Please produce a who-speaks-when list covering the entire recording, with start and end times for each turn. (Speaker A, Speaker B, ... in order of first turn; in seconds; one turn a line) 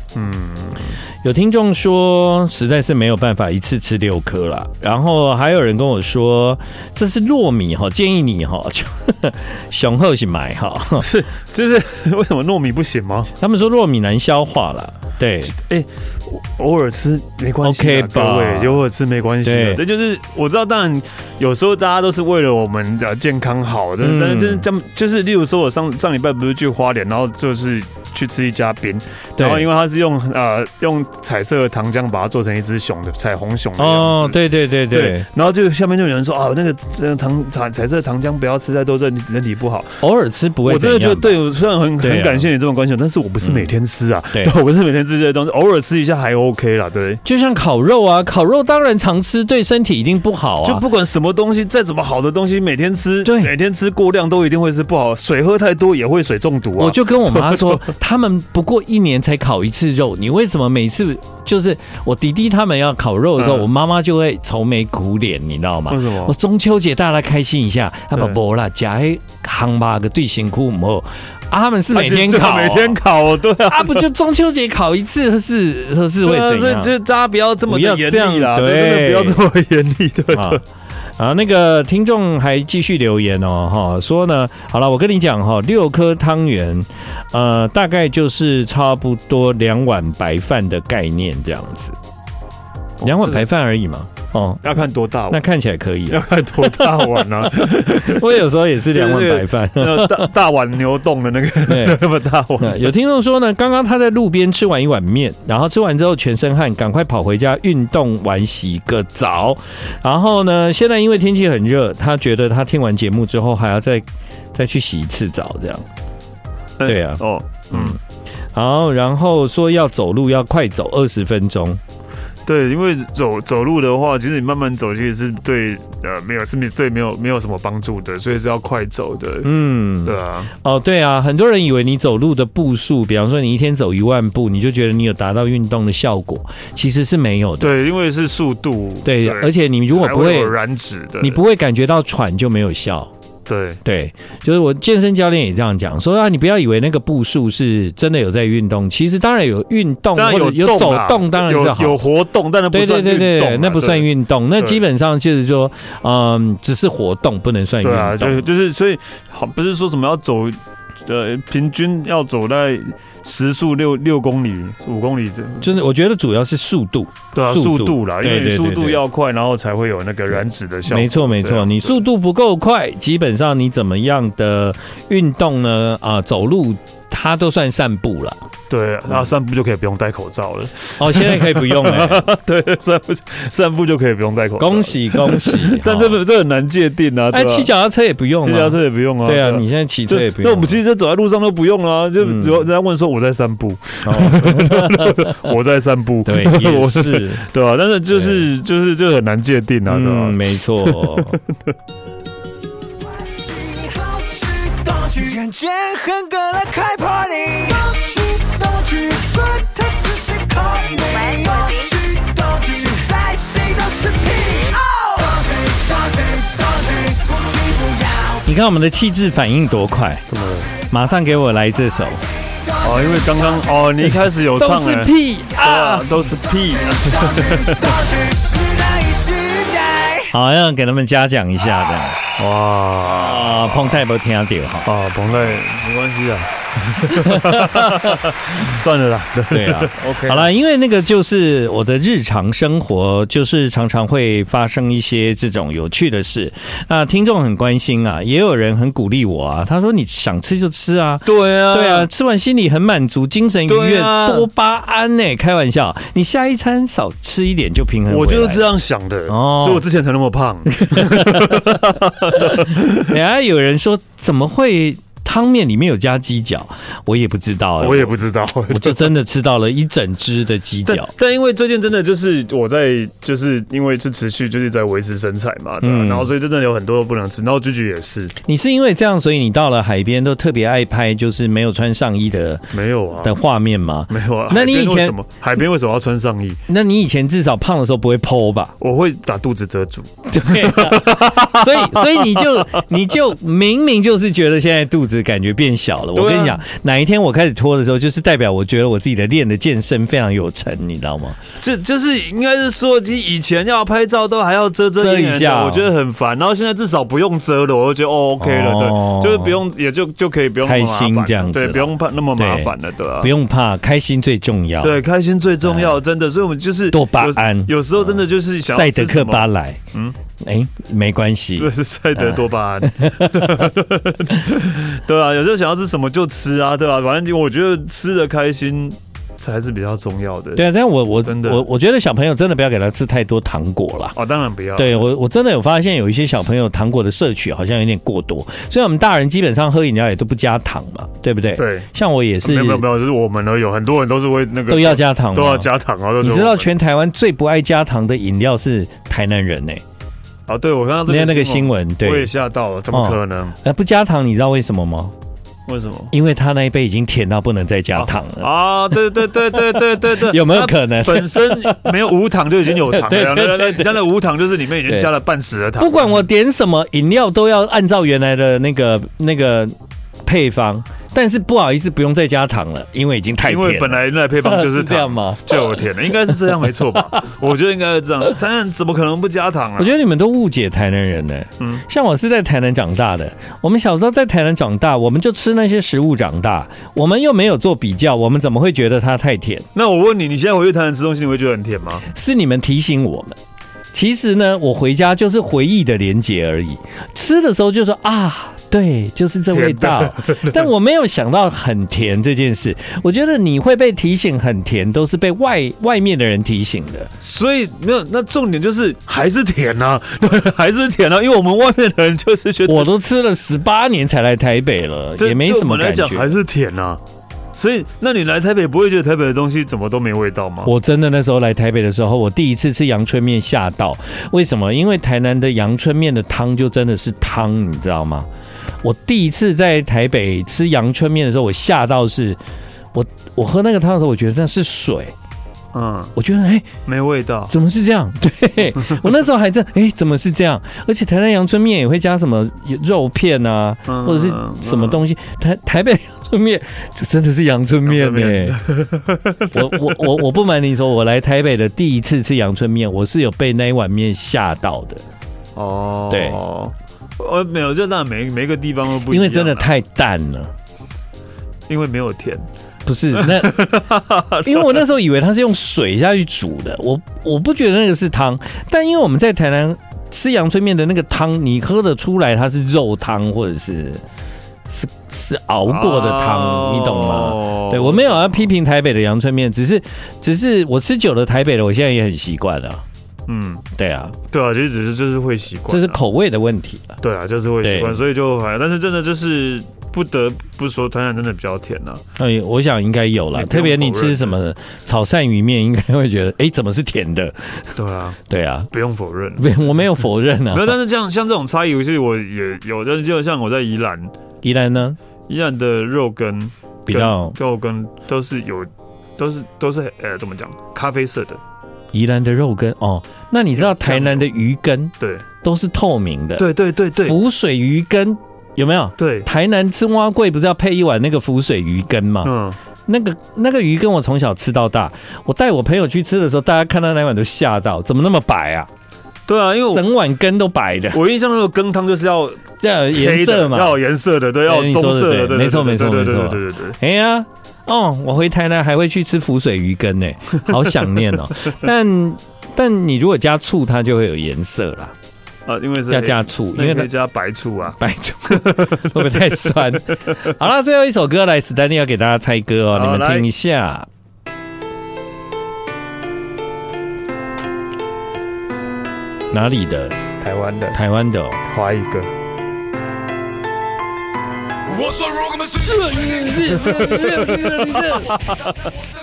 Speaker A: 0.1-0.9
Speaker B: 1.2-11.1
Speaker A: 11.0-13.3
Speaker B: 13.4-15.5
Speaker A: 15.5-40.0
Speaker B: 17.6-18.8
Speaker B: 19.4-19.8
Speaker B: 24.0-24.7
Speaker B: 29.4-29.7
Speaker B: 33.8-35.3
Speaker B: 40.0-41.4
Speaker A: 40.6-47.2
Speaker B: 42.0-42.5
Speaker B: 43.4-43.7
Speaker B: 47.2-50.8
Speaker A: 50.6-57.8
Speaker B: 53.2-53.5
Speaker B: 56.8-73.0
Speaker A: 63.4-63.7
Speaker A: 65.9-66.4
Speaker A: 71.9-74.1
Speaker B: 73.6-76.9
Speaker A: 76.2-80.6
Speaker B: 77.7-79.4
Speaker B: 80.3-80.6
Speaker B: 81.2-92.0
Speaker A: 93.0-93.5
Speaker B: 93.0-94.6
Speaker A: 94.6-95.4
Speaker B: 95.3-100.3
Speaker A: 96.1-102.9
Speaker B: 101.7-102.0
Speaker B: 102.6-115.9
Speaker A: 116.8-118.0
Speaker B: 116.8-118.0
Speaker B: 118.5-121.8
Speaker A: 122.5-129.5
Speaker B: 129.4-137.7
Speaker A: 130.0-130.5
Speaker A: 137.6-141.4
Speaker B: 139.1-140.6
Speaker B: 141.2-143.1
Speaker A: 143.5-143.8
Speaker B: 143.8-152.0
Speaker A: 150.2-154.8
Speaker B: 152.7-158.4
Speaker A: 157.8-165.7
Speaker B: 165.6-169.0
Speaker A: 167.3-172.0
Speaker B: 170.9-178.4
Speaker A: 178.7-187.7
Speaker B: 181.0-182.3
Speaker B: 184.6-186.2
Speaker B: 187.3-190.8
Speaker A: 188.4-201.7
Speaker B: 192.2-192.6
Speaker B: 194.0-195.5
Speaker B: 196.2-197.4
Speaker B: 198.2-198.4
Speaker B: 199.9-201.4
Speaker C: 203.1-218.4
Speaker B: 218.4-220.3
Speaker A: 220.3-220.7
Speaker B: 220.9-222.2
Speaker C: 222.7-223.8
Speaker A: 222.8-228.0
Speaker B: 224.5-226.2
Speaker C: 226.6-230.3
Speaker B: 230.3-232.2
Speaker A: 232.4-234.0
Speaker B: 233.2-234.9
Speaker A: 234.8-240.5
Speaker B: 237.0-238.2
Speaker B: 239.5-258.7
Speaker A: 251.2-252.1
Speaker A: 253.7-254.5
Speaker A: 258.1-263.2
Speaker B: 259.3-259.8
Speaker B: 260.8-268.2
Speaker A: 267.8-269.1
Speaker B: 268.7-271.1
Speaker A: 270.9-278.3
Speaker B: 275.8-276.3
Speaker B: 278.4-285.2
Speaker A: 282.7-283.4
Speaker A: 284.1-286.6
Speaker B: 286.7-288.8
Speaker A: 288.8-292.7
Speaker B: 290.3-301.4
Speaker A: 296.1-296.6
Speaker A: 301.6-313.3
Speaker B: 305.0-305.9
Speaker B: 308.4-309.6
Speaker B: 310.6-315.0
Speaker A: 314.8-320.2
Speaker B: 315.6-315.9
Speaker B: 316.9-318.1
Speaker B: 318.7-319.8
Speaker B: 320.4-323.7
Speaker A: 321.6-330.7
Speaker B: 330.6-334.2
Speaker A: 331.2-331.7
Speaker A: 334.1-335.1
Speaker B: 334.8-342.8
Speaker A: 341.6-341.9
Speaker A: 342.4-346.7
Speaker B: 344.7-345.7
Speaker B: 346.2-349.8
Speaker A: 350.5-353.6
Speaker B: 351.1-352.3
Speaker B: 352.9-355.1
Speaker A: 355.7-356.1
Speaker B: 356.1-358.5
Speaker A: 357.9-366.2
Speaker B: 359.7-361.9
Speaker B: 362.8-364.0
Speaker B: 365.8-369.7
Speaker B: 370.2-377.2
Speaker A: 373.4-379.9
Speaker B: 379.8-389.7
Speaker A: 389.8-392.1
Speaker B: 392.1-393.4
Speaker B: 393.9-407.1
Speaker A: 399.5-400.7
Speaker A: 407.2-412.9
Speaker B: 412.7-416.3
Speaker A: 415.2-417.0
Speaker A: 417.6-420.7
Speaker B: 420.6-428.3
Speaker B: 428.8-432.4
Speaker B: 432.9-435.1
Speaker A: 435.7-436.1
Speaker B: 436.1-436.7
Speaker A: 436.9-437.6
Speaker B: 437.5-448.6
Speaker A: 443.9-445.0
Speaker A: 447.9-450.0
Speaker B: 449.5-455.0
Speaker A: 455.6-459.7
Speaker B: 456.1-456.4
Speaker B: 459.1-460.5
Speaker A: 461.7-462.5
Speaker B: 462.9-463.8
Speaker A: 463.1-464.9
Speaker B: 464.4-474.0
Speaker B: 474.7-482.8
Speaker A: 475.7-478.4
Speaker A: 483.3-483.6
Speaker B: 483.8-484.2
Speaker A: 484.3-486.0
Speaker B: 485.7-487.0
Speaker A: 487.0-492.0
Speaker B: 487.6-488.0
Speaker B: 492.2-497.8
Speaker A: 493.3-494.4
Speaker A: 497.8-498.2
Speaker B: 498.3-498.7
Speaker A: 498.7-499.9
Speaker B: 499.4-500.8
Speaker A: 500.5-504.1
Speaker B: 504.4-505.0
Speaker A: 505.3-511.4
Speaker B: 506.9-507.4
Speaker B: 511.9-516.5
Speaker A: 513.5-514.3
Speaker A: 515.0-515.2
Speaker A: 516.4-517.2
Speaker B: 517.0-522.3
Speaker A: 519.0-519.3
Speaker A: 522.2-522.6
Speaker B: 522.9-528.7
Speaker A: 529.3-529.9
Speaker B: 529.7-531.0
Speaker A: 530.9-536.8
Speaker B: 532.6-533.8
Speaker B: 534.5-544.9
Speaker A: 545.5-550.2
Speaker B: 545.9-546.9
Speaker B: 547.8-553.9
Speaker A: 552.7-553.3
Speaker B: 559.3-560.0
Speaker A: 560.2-560.8
Speaker B: 560.7-561.4
Speaker A: 561.5-562.1
Speaker C: 565.2-565.4
Speaker B: 565.4-568.4
Speaker A: 566.4-568.6